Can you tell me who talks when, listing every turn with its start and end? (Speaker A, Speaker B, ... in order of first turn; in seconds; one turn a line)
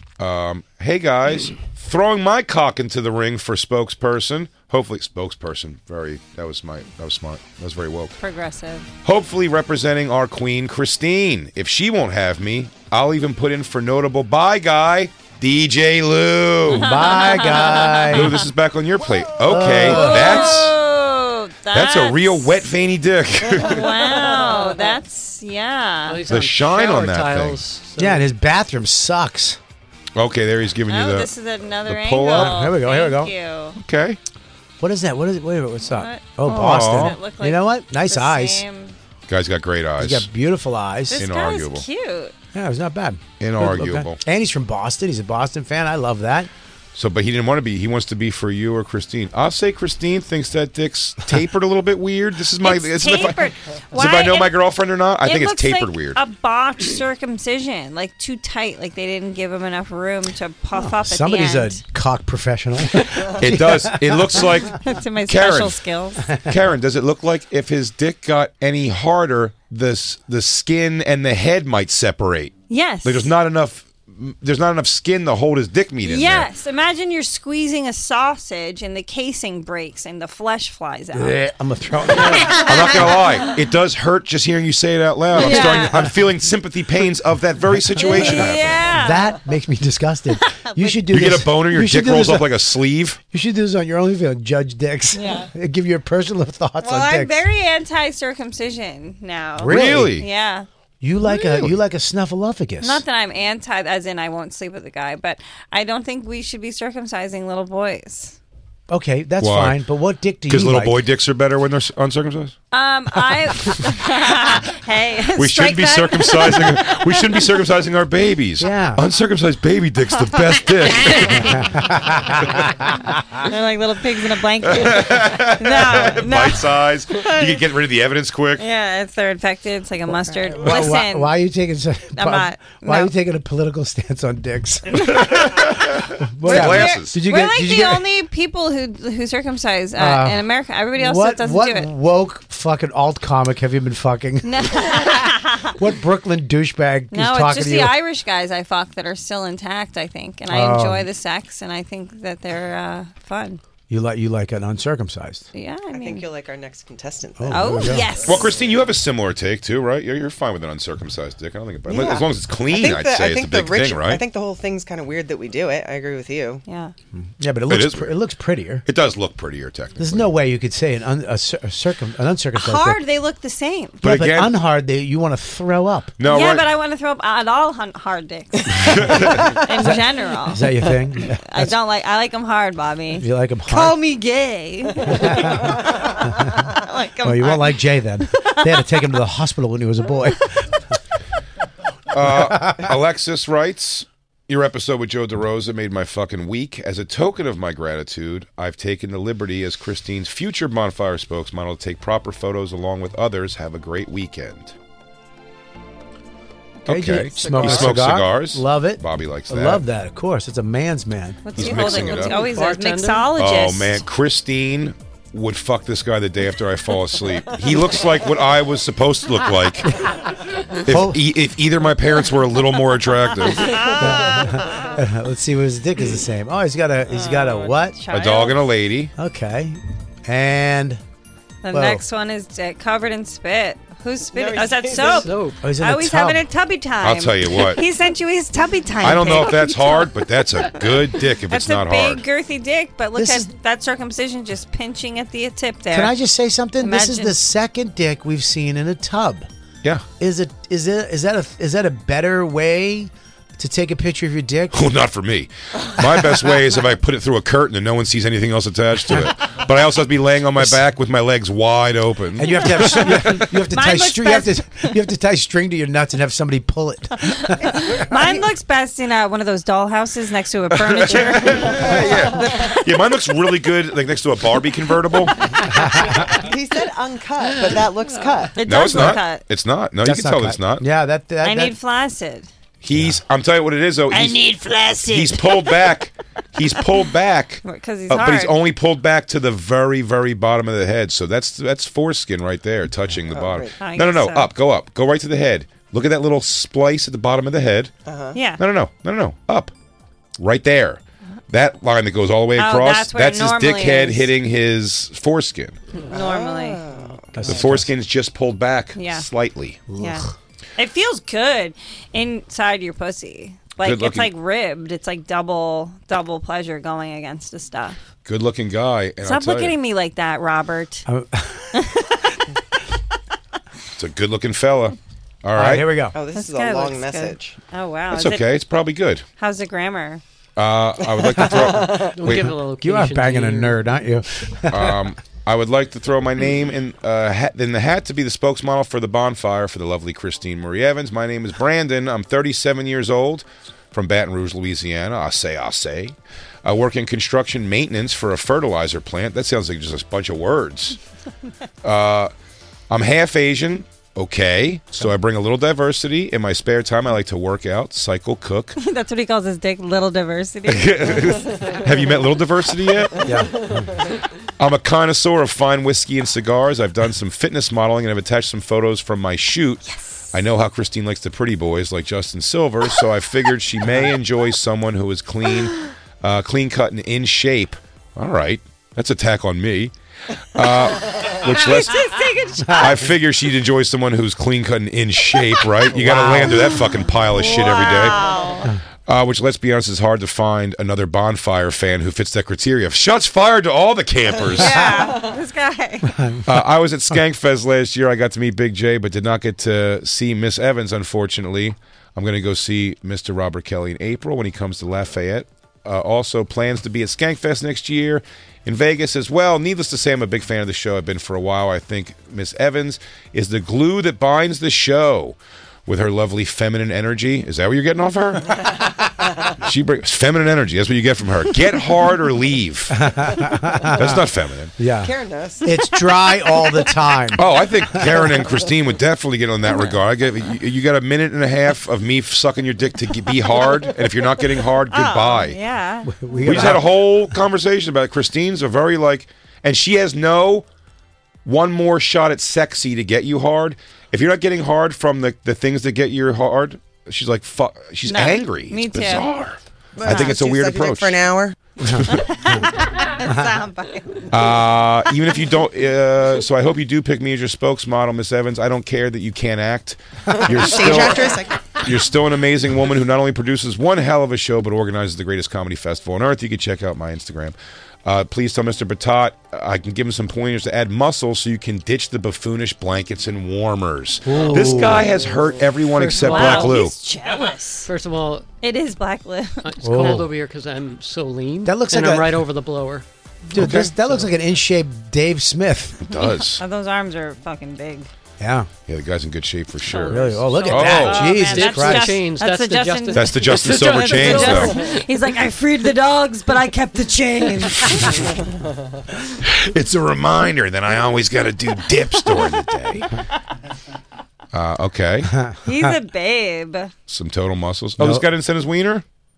Speaker A: 0.2-8.2
Speaker B: 8.2-8.9
Speaker A: 9.0-17.0
Speaker C: 16.7-18.4
Speaker B: 16.8-18.4
Speaker A: 18.1-20.8
Speaker C: 19.4-20.5
Speaker B: 19.8-22.6
Speaker A: 21.7-23.9
Speaker B: 23.6-26.3
Speaker D: 26.1-28.3
Speaker A: 26.3-27.6
Speaker C: 28.0-29.6
Speaker A: 30.1-31.3
Speaker B: 30.9-33.8
Speaker A: 31.9-32.6
Speaker C: 32.3-33.3
Speaker A: 33.8-34.2
Speaker C: 34.8-38.6
Speaker B: 35.9-38.9
Speaker A: 36.5-37.2
Speaker A: 39.3-40.3
Speaker C: 40.0-41.2
Speaker B: 41.1-42.3
Speaker A: 41.2-41.8
Speaker C: 42.5-46.5
Speaker A: 43.4-44.2
Speaker A: 46.9-56.2
Speaker B: 52.6-54.5
Speaker B: 55.2-61.8
Speaker C: 60.7-64.5
Speaker A: 63.4-65.8
Speaker B: 64.8-66.3
Speaker A: 66.4-76.5
Speaker B: 72.7-73.3
Speaker B: 76.0-81.4
Speaker C: 81.1-83.0
Speaker B: 82.1-83.1
Speaker A: 82.5-88.8
Speaker B: 85.3-86.0
Speaker C: 85.5-86.1
Speaker B: 88.0-89.3
Speaker C: 88.0-92.6
Speaker B: 90.5-91.1
Speaker A: 91.1-93.2
Speaker C: 93.3-97.4
Speaker B: 95.1-95.5
Speaker B: 96.8-100.7
Speaker C: 99.6-100.2
Speaker A: 99.6-100.3
Speaker C: 101.0-103.0
Speaker A: 101.4-101.7
Speaker B: 102.8-108.4
Speaker C: 108.9-111.0
Speaker A: 109.4-109.8
Speaker A: 110.5-112.5
Speaker B: 112.7-117.2
Speaker A: 115.4-121.6
Speaker C: 118.6-119.0
Speaker C: 121.5-123.0
Speaker B: 123.4-127.6
Speaker A: 124.6-128.6
Speaker B: 128.6-131.3
Speaker C: 130.1-138.1
Speaker B: 132.2-133.1
Speaker B: 136.4-141.9
Speaker A: 136.4-137.1
Speaker C: 140.0-147.9
Speaker B: 144.4-145.7
Speaker B: 147.1-153.6
Speaker C: 150.5-151.1
Speaker C: 153.9-155.4
Speaker B: 155.5-156.3
Speaker E: 155.9-158.6
Speaker C: 157.4-158.1
Speaker B: 157.5-158.5
Speaker A: 158.2-164.2
Speaker E: 161.9-166.6
Speaker B: 166.7-166.9
Speaker C: 167.4-168.8
Speaker A: 167.7-168.2
Speaker A: 168.8-170.3
Speaker C: 170.0-173.0
Speaker B: 172.6-174.0
Speaker A: 174.0-174.5
Speaker C: 174.0-176.1
Speaker A: 176.2-176.7
Speaker B: 176.2-180.7
Speaker A: 178.9-179.3
Speaker C: 179.8-181.8
Speaker B: 181.4-188.9
Speaker C: 183.2-184.0
Speaker C: 185.1-186.6
Speaker C: 187.2-190.8
Speaker A: 192.1-204.7
Speaker C: 192.2-192.9
Speaker A: 206.8-209.8
Speaker C: 206.8-211.4
Speaker E: 207.4-207.9
Speaker B: 211.4-214.0
Speaker A: 211.6-212.5
Speaker D: 211.8-213.3
Speaker A: 213.3-219.9
Speaker A: 220.8-223.8
Speaker C: 220.9-221.2
Speaker B: 223.5-224.8
Speaker C: 223.9-227.9
Speaker B: 227.1-228.7
Speaker A: 228.1-229.1
Speaker C: 229.2-231.0
Speaker B: 231.6-240.1
Speaker C: 231.7-232.0
Speaker E: 234.3-235.4
Speaker D: 235.2-235.6
Speaker C: 235.6-236.4
Speaker A: 237.0-237.8
Speaker A: 239.0-242.2
Speaker B: 241.5-246.1
Speaker C: 243.2-243.5
Speaker C: 245.9-249.5
Speaker B: 246.8-247.4
Speaker C: 250.2-254.9
Speaker A: 254.7-263.4
Speaker C: 262.4-268.4
Speaker B: 263.7-264.9
Speaker B: 267.6-272.9
Speaker A: 270.8-275.4
Speaker E: 276.1-278.6
Speaker B: 278.5-279.4
Speaker A: 278.6-280.8
Speaker C: 280.0-281.8
Speaker B: 281.4-282.5
Speaker A: 282.8-284.5
Speaker C: 282.9-283.2
Speaker B: 284.1-285.2
Speaker A: 285.0-297.9
Speaker B: 287.6-288.6
Speaker E: 293.3-293.7
Speaker B: 293.8-294.5
Speaker E: 298.1-298.4
Speaker B: 298.3-298.6
Speaker A: 298.6-299.7
Speaker A: 300.4-305.8
Speaker B: 302.6-304.3
Speaker E: 306.1-307.4
Speaker B: 306.1-306.9
Speaker C: 307.3-307.9
Speaker A: 307.4-309.8
Speaker B: 308.9-309.3
Speaker C: 309.9-310.3
Speaker B: 310.0-310.2
Speaker B: 310.8-318.0
Speaker A: 313.8-314.3
Speaker A: 318.2-319.8
Speaker B: 319.2-321.1
Speaker C: 321.1-321.8
Speaker B: 321.7-322.1
Speaker A: 324.0-325.9
Speaker C: 325.5-326.1
Speaker E: 326.1-327.6
Speaker B: 326.3-328.5
Speaker A: 328.1-329.2
Speaker B: 329.4-330.2
Speaker A: 330.6-332.6
Speaker E: 331.0-332.1
Speaker C: 331.5-335.1
Speaker D: 332.1-333.9
Speaker A: 334.7-351.0
Speaker A: 351.8-352.3
Speaker A: 352.9-358.8
Speaker B: 358.8-361.8
Speaker A: 360.7-363.3
Speaker C: 363.2-363.7
Speaker A: 364.6-379.9
Speaker A: 380.5-381.9
Speaker B: 381.6-383.0
Speaker A: 382.7-388.2
Speaker C: 385.9-386.9
Speaker B: 387.3-388.8
Speaker A: 389.1-394.9
Speaker B: 394.6-396.1
Speaker C: 396.1-396.6
Speaker A: 396.4-415.4
Speaker A: 415.9-418.7
Speaker A: 419.6-423.1
Speaker C: 422.9-424.2
Speaker A: 423.9-424.7
Speaker C: 424.8-425.1
Speaker E: 425.0-426.7
Speaker C: 425.6-428.2
Speaker A: 427.4-435.6
Speaker B: 434.9-436.7
Speaker C: 436.1-437.3
Speaker A: 436.4-440.6
Speaker A: 441.4-451.2
Speaker B: 448.0-449.2
Speaker E: 449.9-451.6
Speaker B: 450.0-450.3
Speaker B: 452.1-454.3
Speaker A: 454.3-476.9
Speaker E: 460.3-461.7
Speaker C: 474.2-475.1
Speaker D: 474.4-474.9
Speaker D: 475.9-476.8
Speaker B: 476.2-477.9
Speaker D: 477.8-478.4
Speaker B: 478.6-479.6
Speaker D: 479.6-483.0
Speaker C: 479.8-480.3
Speaker C: 481.6-482.4
Speaker C: 483.5-486.0
Speaker A: 483.6-483.9
Speaker D: 483.9-484.4
Speaker A: 486.0-486.6
Speaker B: 486.1-488.1
Speaker C: 488.4-488.7
Speaker A: 488.9-490.1
Speaker B: 489.9-498.3
Speaker D: 489.9-495.0
Speaker C: 490.1-492.2
Speaker A: 490.7-491.3
Speaker A: 493.1-494.8
Speaker A: 499.4-503.1
Speaker A: 504.5-505.3
Speaker B: 505.6-506.9
Speaker A: 507.1-509.0
Speaker C: 508.0-508.2